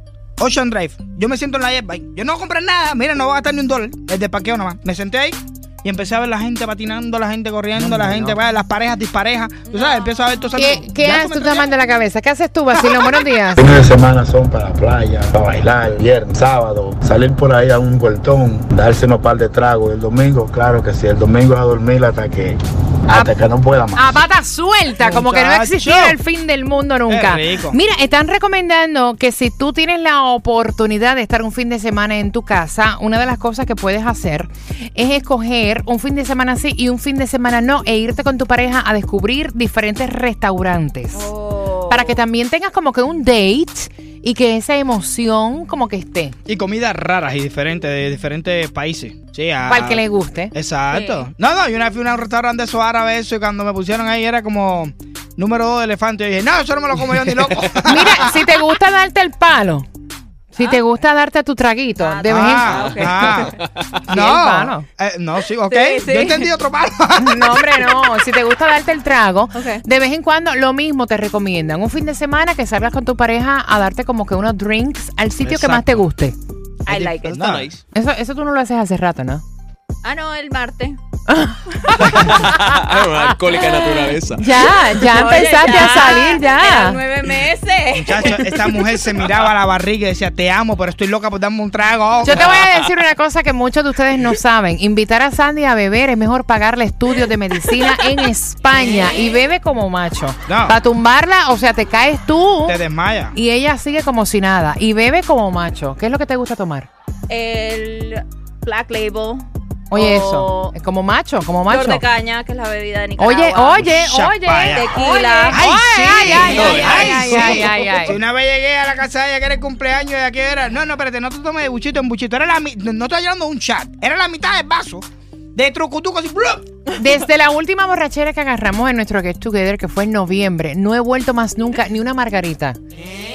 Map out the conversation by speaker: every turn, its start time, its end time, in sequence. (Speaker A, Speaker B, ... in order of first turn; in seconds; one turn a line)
Speaker A: 0.4-11.7
Speaker B: 7.8-8.4
Speaker C: 9.7-10.7
Speaker B: 10.6-13.7
Speaker D: 13.6-24.1
Speaker B: 23.9-41.3
Speaker A: 25.0-26.2
Speaker A: 27.1-27.8
Speaker C: 41.1-42.2
Speaker B: 41.9-46.4
Speaker A: 46.5-58.4
Speaker B: 49.7-50.5
Speaker C: 50.9-51.3
Speaker B: 57.9-59.9
Speaker B: 60.5-63.1
Speaker C: 62.0-63.3
Speaker A: 62.3-63.5
Speaker E: 63.4-64.0
Speaker A: 64.1-67.8
Speaker B: 64.1-64.8
Speaker C: 65.7-66.5
Speaker B: 67.2-76.3
Speaker C: 69.5-69.8
Speaker A: 75.4-76.0
Speaker C: 76.8-77.5
Speaker E: 76.9-77.8
Speaker A: 77.3-77.7
Speaker B: 77.9-79.4
Speaker C: 80.0-81.0
Speaker B: 81.3-82.3
Speaker E: 81.9-84.5
Speaker B: 84.3-87.0
Speaker C: 84.5-88.8
Speaker A: 87.9-92.6
Speaker B: 92.2-102.8
Speaker A: 100.5-100.8
Speaker A: 102.7-103.3
Speaker B: 103.3-106.9
Speaker C: 107.3-110.7
Speaker B: 109.9-112.0
Speaker C: 111.7-113.8
Speaker B: 113.2-118.2
Speaker A: 113.7-114.9
Speaker C: 114.7-117.4
Speaker A: 115.5-126.7
Speaker E: 116.5-118.0
Speaker B: 126.9-132.8